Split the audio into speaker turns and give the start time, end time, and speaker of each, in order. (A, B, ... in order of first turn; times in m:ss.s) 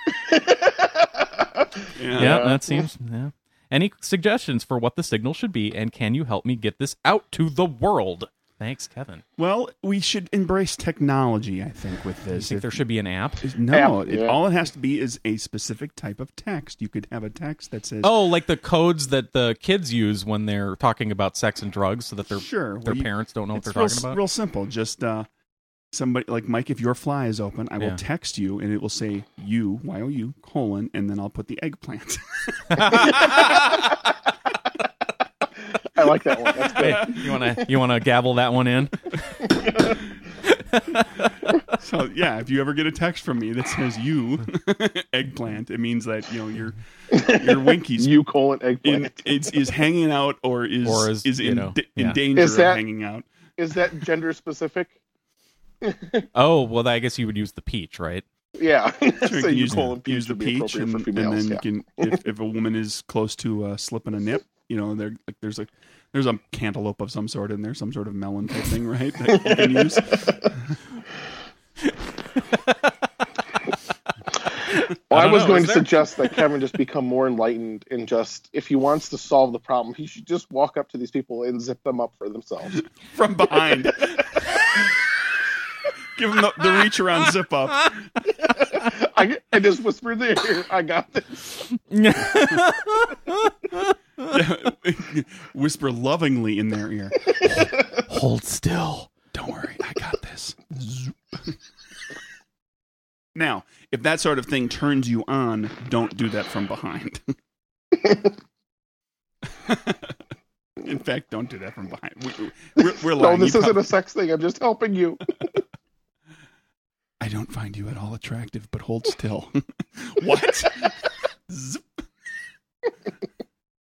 0:00.2-0:02.9 A
0:02.0-0:02.5 B
0:02.2-0:09.2 C
0:09.4-0:12.8 B
0:12.3-0:13.5 C
0:13.4-0:18.2 B
0:13.7-0:14.4 A
0:18.0-0:24.2 C
0:22.4-0:25.3 B
0:25.9-0:33.5 B
0:32.7-0:33.7 C
0:33.3-0:33.9 A
0:35.8-0:37.7 A
0:36.6-0:39.6 C
0:36.7-0:37.2 B
0:39.5-0:40.0 A
0:40.5-0:41.6 C
0:41.7-0:48.1 B
0:47.1-0:49.7 A
0:48.8-0:53.3 B
0:50.8-0:52.2 C
0:52.4-0:52.8 A
0:53.6-0:55.0 A
0:55.8-0:56.3 A
0:56.4-0:58.2 C
0:58.6-1:02.2 A
0:59.2-1:10.8 B
1:09.3-1:10.5 A
1:14.7-1:16.3 C
1:15.1-1:22.8 A
1:23.0-1:24.2 B
1:23.6-1:24.1 A
1:26.1-1:28.1 B
1:28.4-1:31.7 A
1:31.9-1:34.4 C
1:34.2-1:37.3 B
1:37.9-1:39.1 C
1:39.3-1:41.6 B
1:43.4-1:47.4 B
1:48.0-1:48.3 A
1:49.4-1:50.2 B
1:50.8-1:53.9 B
1:53.0-1:55.4 A
1:57.2-2:02.0 B